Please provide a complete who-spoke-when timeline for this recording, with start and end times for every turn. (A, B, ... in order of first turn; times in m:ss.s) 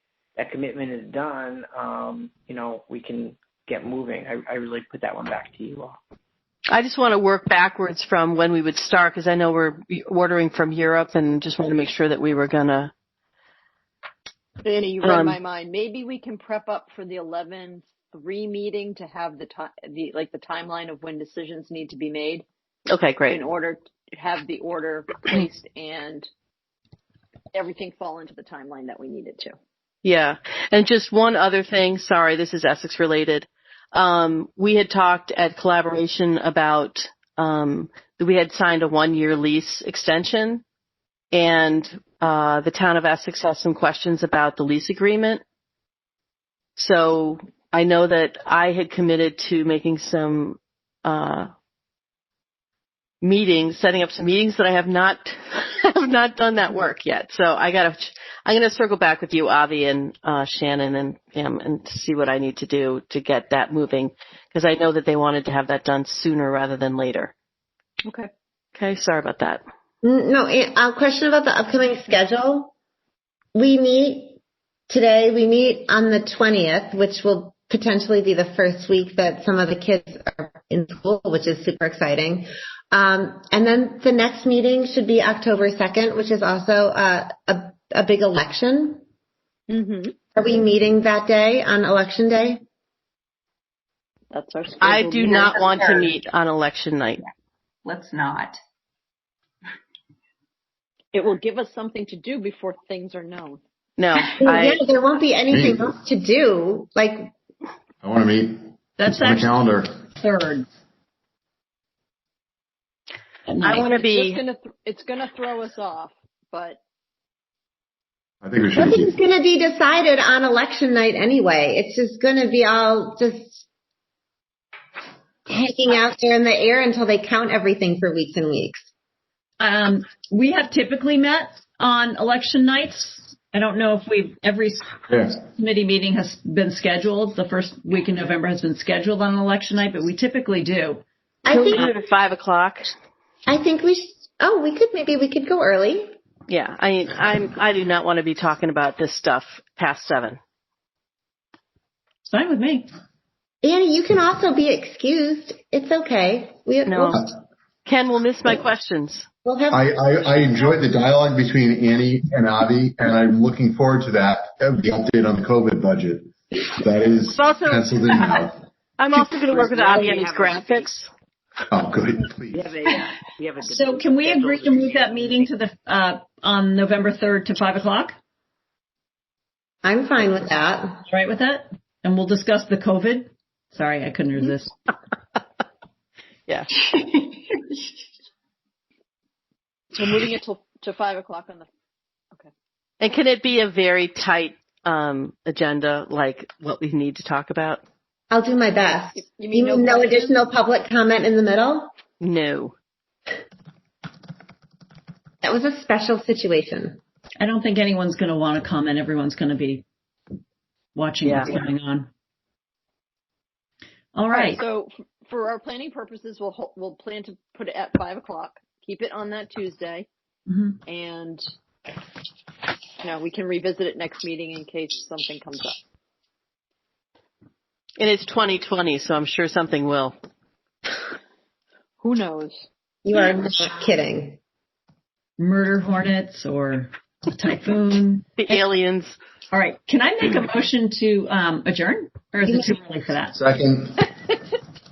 0:00.4-0:06.0 A
0:06.7-0:12.9 B
0:14.6-0:22.4 C
0:15.0-0:15.4 B
0:22.9-0:23.4 B
0:23.3-0:26.3 C
0:27.5-0:29.5 C
0:30.0-0:40.6 B
0:41.3-0:45.4 B
0:46.8-0:51.5 B
0:53.2-1:07.3 B
1:08.0-1:08.3 C
1:08.8-1:09.6 B
1:10.0-1:12.7 D
1:13.5-1:14.4 D
1:14.9-1:29.0 D
1:29.7-1:30.2 C
1:30.4-1:32.6 D
1:34.3-1:36.1 C
1:34.8-1:37.2 B
1:37.9-1:38.5 E
1:41.1-1:43.6 C
1:44.0-1:44.8 B
1:44.4-1:47.3 D
1:45.5-1:45.9 F
1:48.0-1:49.9 F
1:49.0-1:49.6 E
1:50.2-1:50.7 E
1:53.5-1:53.9 E
1:53.6-1:54.4 B
1:53.8-1:56.8 C
1:58.4-1:59.2 F
1:58.8-2:03.6 D
2:05.5-2:08.8 D
2:09.6-2:21.0 E
2:15.1-2:15.4 F
2:21.4-2:21.9 D
2:21.5-2:22.9 B
2:23.5-2:26.1 D
2:26.5-2:30.4 B
2:32.3-2:32.9 E
2:33.6-2:37.2 D
2:36.9-2:37.2 B
2:37.9-2:39.3 B
2:39.4-2:40.6 D
2:39.7-2:48.6 F
2:47.3-2:48.3 B
2:49.0-2:51.1 B
2:49.3-2:50.9 A
2:51.7-2:52.7 F
2:52.5-2:55.5 A
2:53.6-2:58.2 E
2:59.8-3:01.0 D
3:01.1-3:04.7 E
3:10.0-3:11.7 C
3:13.0-3:17.8 B
3:18.3-3:21.9 D
3:18.9-3:20.4 C
3:22.2-3:22.7 B
3:25.4-3:27.0 D
3:27.4-3:29.8 E
3:30.9-3:32.1 E
3:31.2-3:31.6 B
3:34.1-3:34.6 E
3:34.3-3:40.1 C
3:40.5-3:40.8 E
3:40.9-3:41.4 C
3:43.0-3:45.8 C
3:48.0-3:50.2 B
3:52.0-3:52.6 C
3:53.0-3:54.4 D
3:55.4-3:58.6 E
3:58.4-3:59.2 B
3:59.5-4:03.4 E
4:02.5-4:02.7 D
4:03.3-4:04.0 F